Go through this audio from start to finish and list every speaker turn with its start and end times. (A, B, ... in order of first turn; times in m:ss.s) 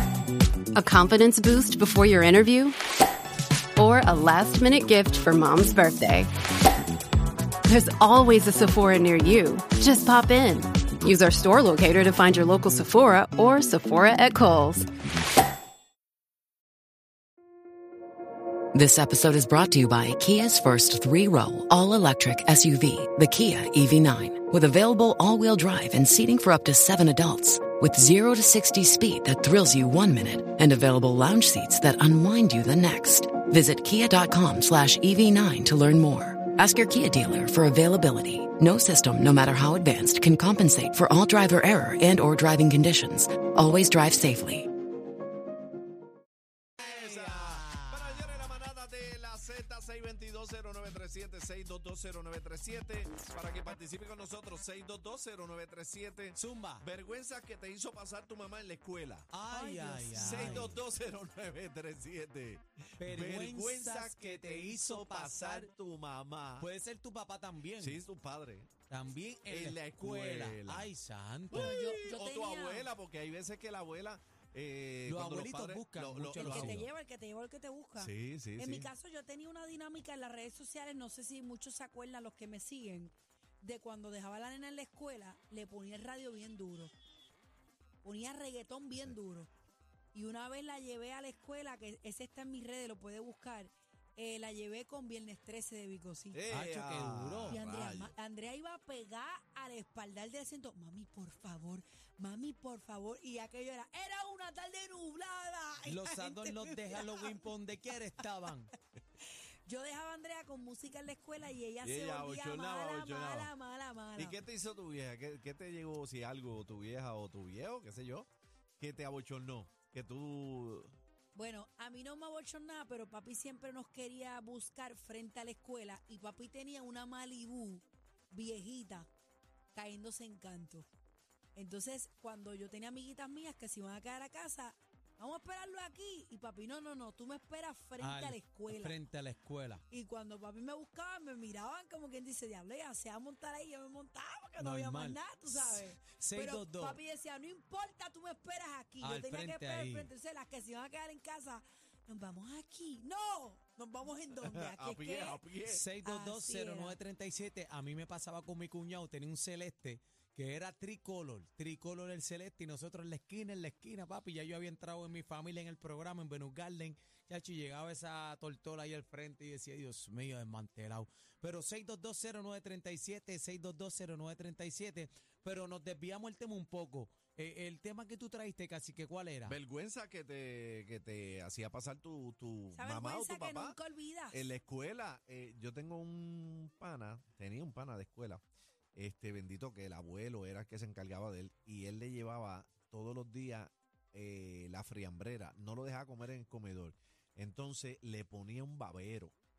0:00.8-0:02.8 A
0:03.8-0:06.3 A
0:07.7-0:14.9 A
0:18.7-0:44.7 B
0:46.8-0:59.3 C
0:46.8-0:48.5 D
0:56.3-0:56.8 D
0:59.3-1:00.8 D
0:59.5-1:00.7 E
1:00.1-1:06.7 C
1:03.0-1:05.7 D
1:06.6-1:08.0 D
1:07.8-1:08.7 C
1:08.9-1:11.8 D
1:09.5-1:10.9 C
1:11.5-1:16.8 C
1:11.5-1:12.9 E
1:15.1-1:16.8 D
1:16.4-1:26.9 E
1:18.0-1:18.9 C
1:28.0-1:29.5 E
1:30.1-1:36.4 E
1:36.3-1:38.2 C
1:36.5-1:37.6 D
1:37.5-1:47.4 E
1:45.9-1:48.7 D
1:49.7-1:54.4 E
1:51.8-1:53.5 C
1:54.2-1:58.3 C
1:58.8-2:00.9 C
2:01.3-2:09.1 E
2:09.7-2:10.9 E
2:11.6-2:19.0 E
2:18.0-2:19.8 D
2:19.9-2:35.4 E
2:24.6-2:27.0 D
2:29.0-2:30.1 D
2:34.4-2:35.8 C
2:35.7-2:59.6 D
2:36.0-2:37.0 E
2:59.4-3:03.8 C
3:02.7-3:04.5 E
3:04.3-3:08.4 C
3:09.0-3:19.3 C